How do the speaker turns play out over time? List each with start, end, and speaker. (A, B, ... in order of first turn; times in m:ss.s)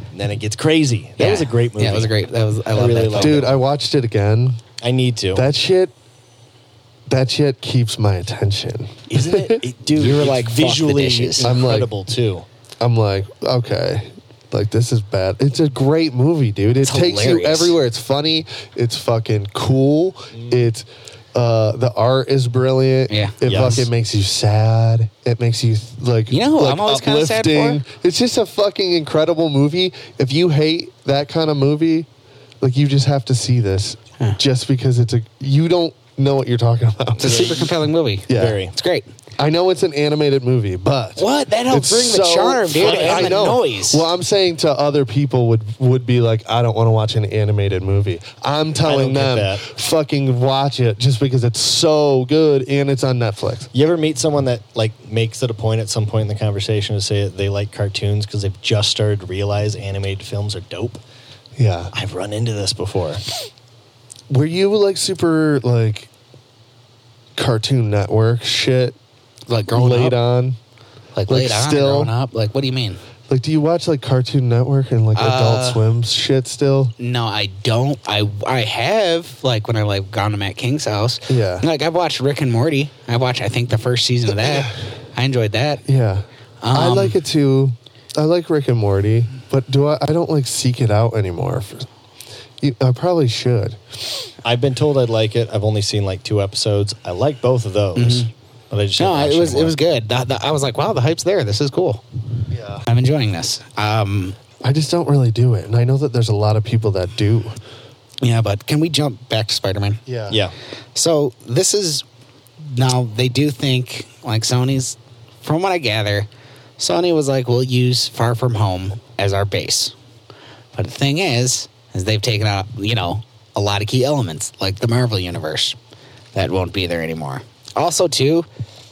0:00.1-0:02.1 A
0:01.2-0:03.6 B
0:02.7-0:03.4 A
0:03.2-0:04.6 C
0:04.8-0:05.5 A
0:05.4-0:05.9 C
0:07.1-0:09.6 C
0:09.1-0:11.5 B
0:09.3-0:12.5 A
0:11.4-0:11.9 C
0:12.8-0:32.1 C
0:16.8-0:17.8 B
0:20.3-0:20.7 A
0:23.1-0:23.4 B
0:23.4-0:23.9 A
0:26.3-0:27.8 B
0:32.6-0:37.5 C
0:37.2-0:39.1 B
0:37.2-0:37.7 A
0:38.3-0:38.6 C
0:38.3-0:38.7 A
0:39.4-0:53.7 C
0:41.2-0:44.1 B
0:42.8-0:43.5 A
0:48.8-0:49.6 A
0:53.7-1:01.0 A
1:01.6-1:01.9 C
1:01.9-1:03.2 A
1:04.3-1:06.1 C
1:07.4-1:09.0 C
1:09.5-1:10.2 B
1:09.7-1:10.6 C
1:11.2-1:13.0 B
1:11.3-1:12.1 C
1:13.3-1:16.9 C
1:15.2-1:15.8 B
1:17.0-1:25.8 B
1:21.3-1:21.6 C
1:25.9-1:31.9 C
1:26.6-1:27.2 B
1:32.6-1:33.8 C
1:34.4-1:39.8 A
1:38.0-1:38.3 B
1:39.0-1:42.0 B
1:42.5-1:42.8 C
1:42.9-1:44.4 B
1:44.6-1:47.6 C
1:48.2-1:50.0 B
1:50.1-1:50.4 C
1:51.0-1:52.0 B
1:52.6-1:56.3 B
1:56.8-1:59.9 B
2:00.8-2:05.8 B
2:06.3-2:08.5 B